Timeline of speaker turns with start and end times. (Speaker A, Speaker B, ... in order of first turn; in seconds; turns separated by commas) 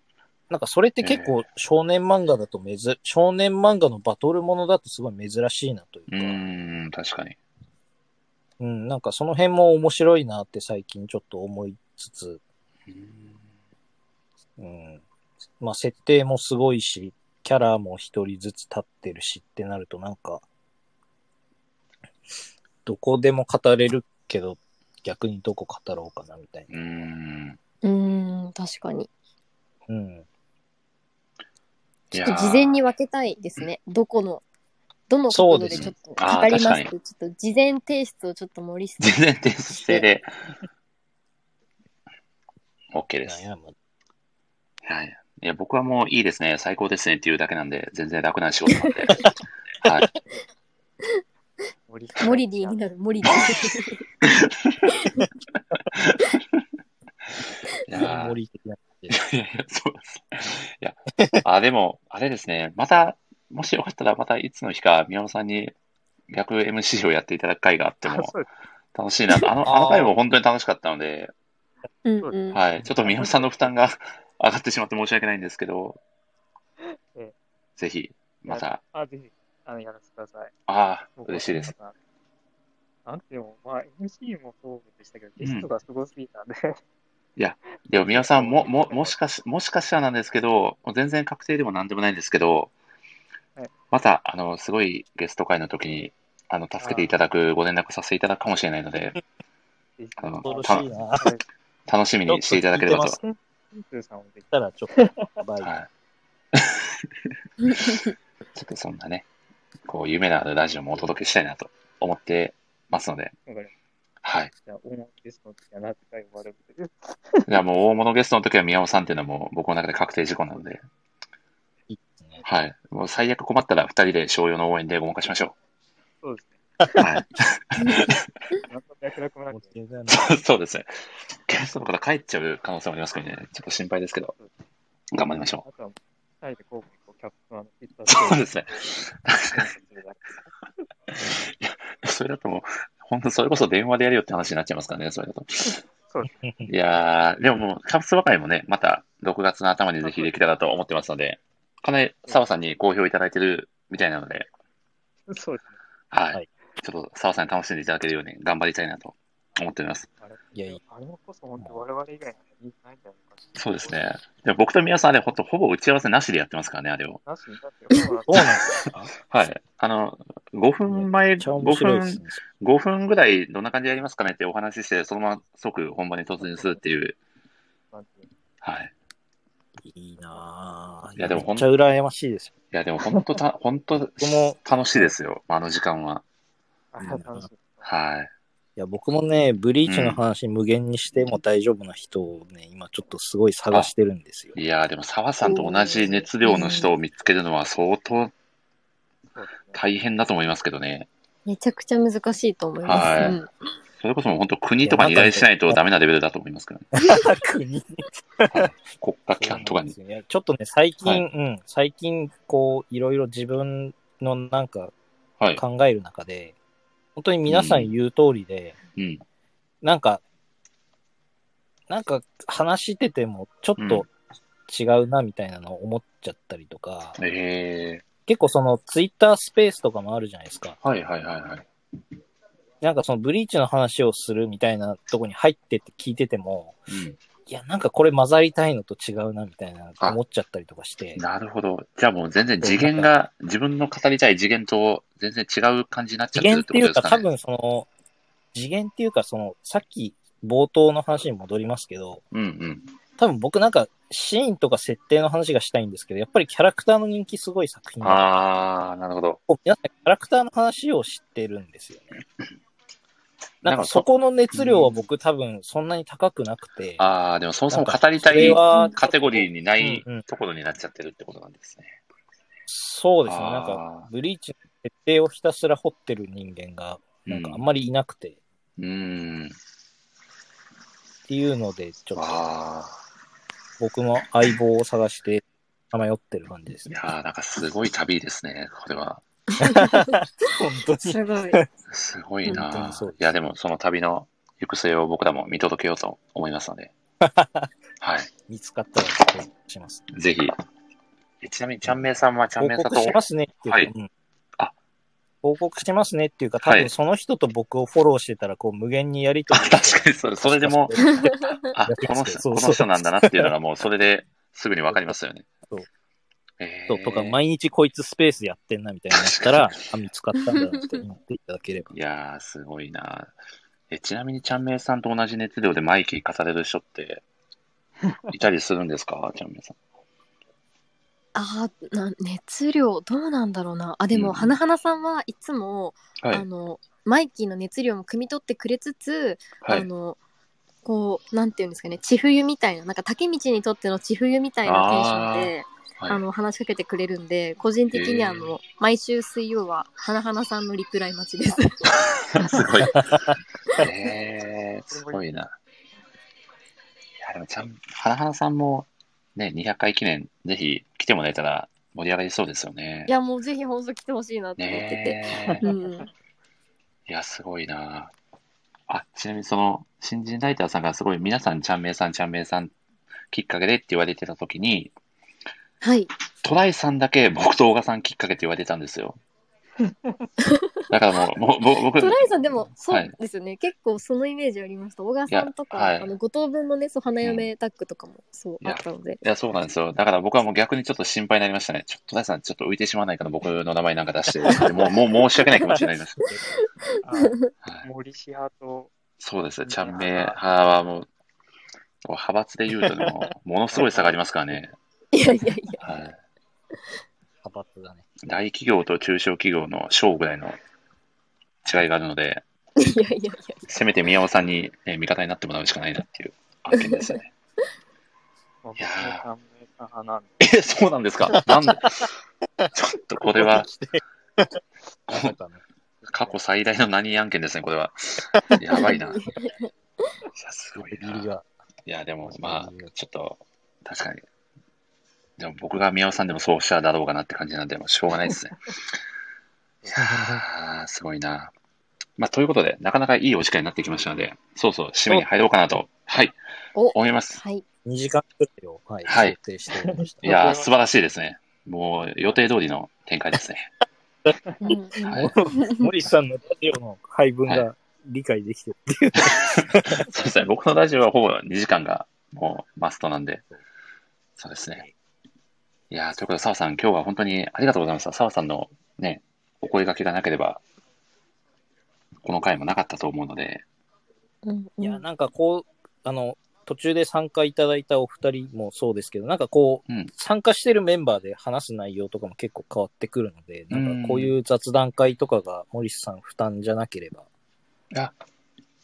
Speaker A: 0.5-6.4, Speaker B: 1.0-1.4, Speaker B: 6.1-7.4, Speaker A: 8.6-12.4, Speaker B: 12.9-13.4, Speaker A: 14.6-15.0, Speaker A: 15.6-20.4, Speaker A: 22.8-26.7, Speaker B: 26.7-27.6, Speaker C: 27.8-29.1, Speaker A: 29.9-30.2, Speaker B: 32.1-32.7, Speaker C: 32.1-34.4, Speaker C: 35.1-39.2, Speaker A: 35.3-35.9, Speaker B: 35.7-36.9, Speaker B: 39.0-40.3, Speaker B: 42.9-43.4, Speaker A: 43.2-43.7, Speaker B: 44.8-49.3, Speaker B: 49.8-50.1, Speaker D: 51.9-53.3, Speaker C: 52.2-54.0, Speaker B: 53.3-53.8, Speaker B: 55.9-56.6, Speaker B: 57.8-58.4, Speaker A: 58.0-59.1, Speaker B: 59.1-65.7, Speaker B: 66.3-68.3, Speaker D: 68.0-68.5, Speaker B: 68.9-71.3, Speaker A: 69.6-70.1, Speaker C: 72.0-72.6, Speaker D: 72.2-73.7, Speaker B: 72.5-76.0, Speaker D: 76.8-77.3, Speaker B: 77.8-78.8, Speaker D: 78.5-80.5, Speaker B: 80.7-81.7, Speaker D: 81.2-81.9, Speaker D: 83.0-86.8, Speaker B: 85.4-85.7, Speaker B: 87.4-92.7, Speaker D: 88.0-89.2, Speaker B: 93.9-99.2, Speaker D: 96.8-97.2, Speaker D: 100.0-101.4, Speaker B: 100.2-100.8, Speaker A: 100.4-101.3, Speaker B: 101.9-103.2, Speaker A: 102.3-103.2, Speaker D: 103.2-105.3, Speaker A: 104.5-105.7, Speaker B: 105.6-105.9, Speaker B: 106.5-109.2, Speaker B: 109.8-113.3, Speaker D: 113.5-113.7, Speaker B: 114.2-114.5, Speaker D: 114.6-117.6, Speaker B: 117.5-120.8, Speaker A: 121.9-122.4, Speaker B: 122.4-125.5, Speaker D: 126.2-127.0, Speaker B: 127.0-128.2, Speaker D: 128.7-129.7, Speaker A: 129.5-130.3, Speaker B: 130.1-130.9, Speaker B: 131.4-134.3, Speaker B: 135.1-135.6, Speaker D: 135.6-139.0, Speaker B: 138.1-139.7, Speaker D: 139.5-140.4, Speaker B: 141.1-145.8, Speaker D: 145.6-146.3, Speaker A: 146.4-146.7, Speaker B: 146.7-154.5, Speaker D: 150.0-150.3, Speaker D: 155.3-155.8, Speaker B: 156.1-160.1, Speaker D: 160.2-163.9, Speaker A: 160.5-160.8, Speaker B: 163.6-167.2, Speaker D: 167.2-168.8, Speaker A: 168.3-169.1, Speaker B: 169.3-177.2, Speaker A: 170.9-172.4, Speaker D: 176.4-176.8, Speaker D: 177.9-178.3, Speaker B: 178.6-178.9, Speaker A: 179.8-182.5, Speaker B: 181.2-181.7, Speaker B: 182.7-186.2, Speaker D: 183.1-183.3, Speaker A: 184.2-185.1, Speaker D: 186.9-187.9, Speaker A: 187.0-187.5, Speaker B: 187.8-188.3, Speaker A: 188.8-194.6, Speaker B: 189.8-190.2, Speaker B: 194.5-198.3, Speaker C: 195.4-196.9, Speaker D: 199.3-199.8, Speaker B: 199.7-201.1, Speaker C: 201.4-203.5, Speaker B: 202.8-203.4, Speaker A: 203.0-203.3, Speaker B: 204.0-206.9, Speaker A: 204.8-205.8, Speaker A: 206.9-208.7, Speaker B: 208.5-209.9, Speaker A: 209.4-214.9, Speaker A: 215.6-216.5, Speaker A: 217.2-218.8, Speaker B: 217.5-217.9, Speaker B: 218.9-219.2, Speaker A: 219.8-220.2, Speaker A: 221.9-224.1, Speaker B: 223.8-224.0, Speaker A: 224.7-227.2, Speaker B: 227.2-228.0, Speaker A: 228.3-230.8, Speaker B: 230.8-231.7, Speaker A: 232.8-236.8, Speaker B: 236.9-237.2, Speaker A: 237.5-241.2, Speaker B: 241.2-247.2, Speaker A: 242.6-243.1, Speaker A: 246.3-247.9, Speaker A: 248.5-252.2, Speaker B: 252.3-252.9, Speaker A: 253.2-258.3, Speaker B: 258.0-259.4, Speaker A: 259.5-262.2, Speaker B: 263.6-264.9, Speaker A: 263.6-267.0, Speaker B: 267.0-272.0, Speaker A: 267.7-270.2, Speaker C: 268.7-268.9, Speaker A: 272.7-278.4, Speaker B: 273.2-274.1, Speaker B: 277.2-277.6, Speaker B: 278.8-279.6, Speaker A: 281.3-282.4, Speaker B: 282.1-283.0, Speaker A: 283.8-287.0, Speaker B: 286.9-289.2, Speaker C: 289.6-290.1, Speaker A: 289.6-291.7, Speaker C: 291.0-291.6, Speaker B: 291.9-296.9, Speaker A: 292.4-293.4, Speaker A: 297.2-297.7, Speaker B: 298.0-298.3, Speaker A: 298.5-300.0, Speaker B: 300.1-300.5, Speaker B: 301.4-303.9, Speaker A: 302.6-304.1, Speaker A: 305.4-313.5, Speaker B: 306.6-306.9, Speaker B: 309.5-315.4, Speaker C: 311.2-311.5, Speaker B: 316.6-317.4, Speaker A: 316.9-321.9, Speaker B: 319.1-319.7, Speaker B: 321.9-323.3, Speaker B: 323.9-327.2, Speaker B: 328.3-329.8, Speaker C: 331.3-340.2, Speaker B: 334.1-334.5, Speaker B: 339.6-339.9, Speaker C: 340.8-351.9, Speaker B: 344.6-346.2, Speaker B: 347.9-348.6, Speaker B: 352.0-353.2, Speaker B: 353.8-355.5, Speaker D: 354.9-355.2, Speaker B: 357.2-363.1, Speaker C: 363.1-366.1, Speaker B: 364.6-365.6, Speaker D: 365.4-366.0, Speaker B: 367.1-368.1, Speaker B: 368.9-372.7, Speaker B: 373.3-374.9, Speaker C: 375.8-376.1, Speaker B: 376.4-379.2, Speaker D: 379.8-380.3, Speaker C: 380.4-380.9, Speaker B: 380.9-383.1, Speaker C: 381.9-389.2, Speaker B: 385.3-386.1, Speaker B: 387.2-387.5, Speaker B: 388.6-396.3, Speaker A: 395.7-396.4, Speaker D: 397.0-398.9, Speaker C: 397.1-397.5, Speaker B: 399.2-401.1, Speaker D: 399.6-400.4, Speaker B: 402.0-404.8, Speaker D: 403.7-404.6, Speaker C: 405.1-405.8, Speaker B: 405.8-406.2, Speaker A: 407.4-408.0, Speaker B: 408.2-410.6, Speaker B: 411.6-412.4, Speaker C: 412.8-413.6, Speaker B: 413.7-417.3, Speaker C: 416.7-417.2, Speaker D: 418.6-420.4, Speaker B: 418.8-419.2, Speaker B: 420.4-422.1, Speaker A: 421.3-422.0, Speaker B: 422.7-423.7, Speaker A: 423.2-425.6, Speaker B: 425.1-425.3, Speaker D: 426.0-426.4, Speaker B: 426.1-429.2, Speaker C: 428.7-429.7, Speaker B: 430.3-431.3, Speaker A: 430.8-431.5, Speaker B: 431.9-434.2, Speaker A: 432.2-432.9, Speaker B: 435.4-438.8, Speaker B: 439.9-441.5, Speaker A: 439.9-440.4, Speaker B: 442.2-446.4, Speaker C: 446.7-447.6, Speaker B: 446.9-447.4, Speaker A: 447.8-450.3, Speaker B: 449.0-449.4, Speaker D: 449.7-450.7, Speaker B: 450.2-453.7, Speaker C: 454.6-455.9, Speaker B: 455.0-455.3, Speaker A: 455.1-460.0, Speaker B: 459.3-463.4, Speaker B: 464.4-464.8, Speaker B: 465.9-470.6, Speaker B: 472.2-473.6, Speaker C: 474.4-475.0, Speaker A: 474.8-487.2, Speaker B: 483.7-484.3